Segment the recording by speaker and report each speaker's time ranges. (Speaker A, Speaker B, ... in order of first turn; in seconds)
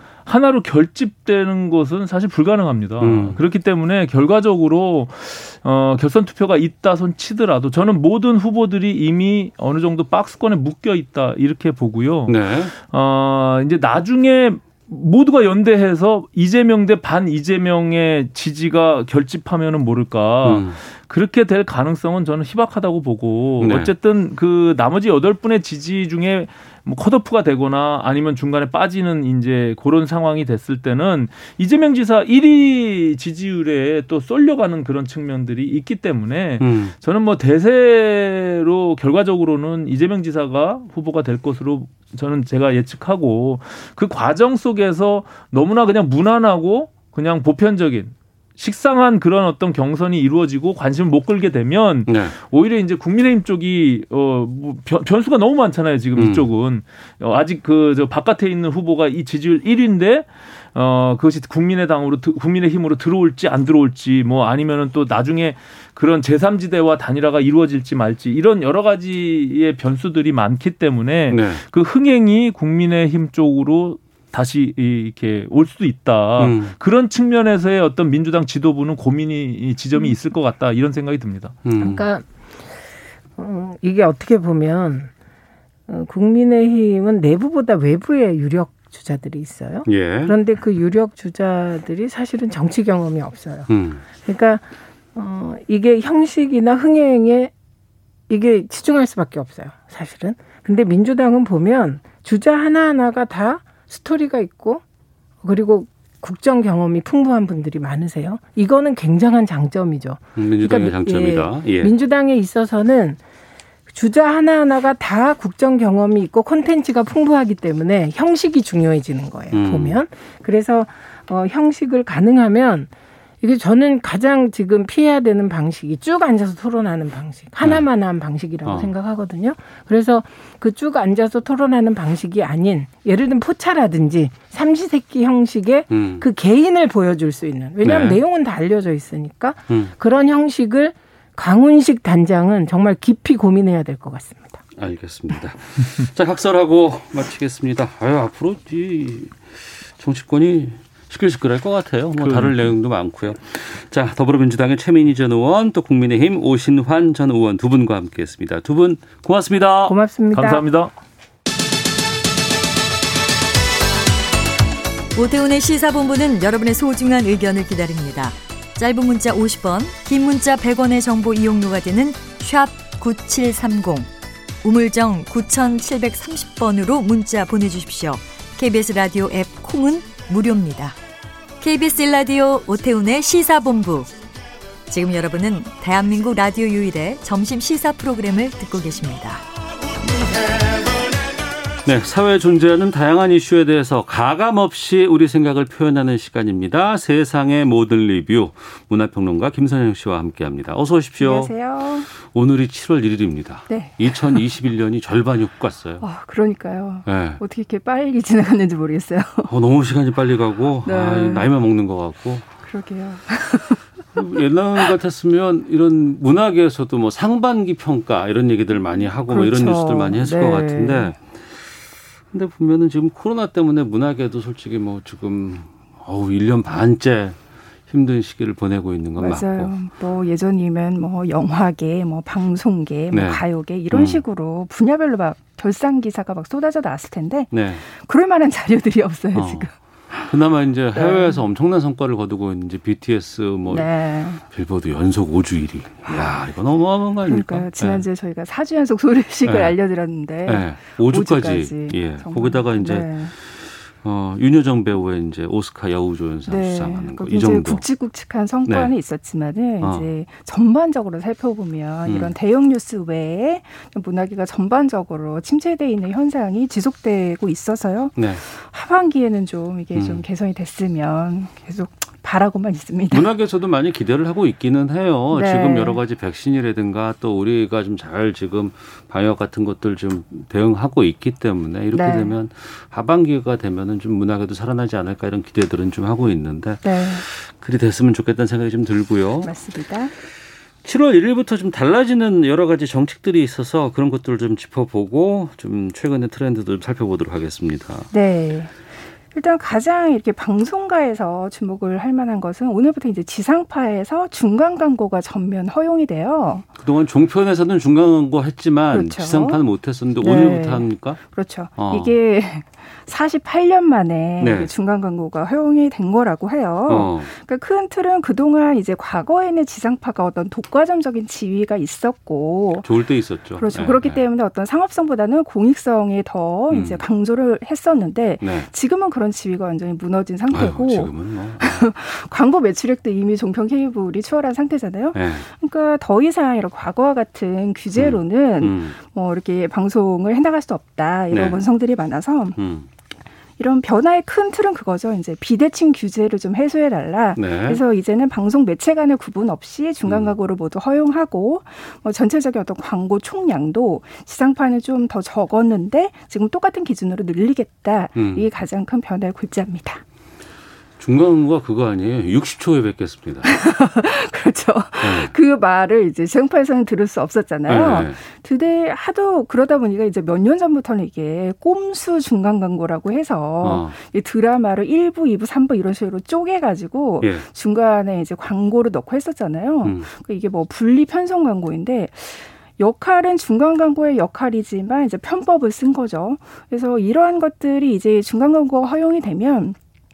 Speaker A: 0.2-81.6, 152.2-152.7, 160.3-160.9
Speaker B: 3.0-3.4, 12.3-12.7, 20.4-20.8, 23.6-23.9, 36.6-36.9, 52.1-52.3, 56.2-56.5, 71.3-71.6, 76.4-76.7, 81.6-82.0, 89.9-90.3, 93.7-94.0, 110.3-111.9, 119.5-120.0, 128.7-128.9, 135.9-136.2, 137.8-138.2, 144.8-159.9, 191.8-201.6, 202.1-206.0, 207.1-207.4, 209.5-212.5, 214.2-221.6, 222.3-227.4, 227.9-229.7, 233.1-234.2, 237.5-237.8, 239.3-239.7, 240.2-243.9, 244.5-248.1, 249.4-249.8, 250.5-257.9, 258.7-258.9, 259.8-260.1, 262.1-262.3, 268.1-268.4, 269.9-270.2, 273.1-289.6, 290.8-298.1, 306.8-311.2, 311.7-312.1, 314.4-314.7, 316.9-317.3, 322.8-324.2, 326.7-327.0, 328.4-328.7, 330.5-331.8, 335.1-335.5, 337.9-339.0, 341.3-341.6, 342.6-342.9, 347.4-347.8, 350.1-350.3, 358.1-358.5, 361.0-363.5, 365.0-365.3, 367.7-368.2, 373.6-374.0, 377.2-377.5
Speaker C: 81.8-82.2, 83.4-85.1, 85.9-93.7, 94.2-94.6, 95.2-97.5, 98.3-104.8, 105.4-113.2, 113.9-122.9, 123.4-144.6, 159.8-160.7
Speaker D: 165.2-174.1, 174.6-181.0, 181.6-184.1, 184.9-189.4
Speaker E: 201.2-202.1, 203.7-204.4, 206.0-209.5, 210.8-211.5, 212.6-213.8, 219.3-221.2, 229.2-240.3, 240.9-241.4, 243.7-244.4, 247.2-253.3, 256.5-273.3, 275.3-276.0, 281.9-282.3, 286.8-287.2, 289.4-290.1, 298.1-298.7, 299.3-306.7, 308.9-309.6, 310.2-322.9, 323.6-342.6, 343.6-360.0, 363.4-389.8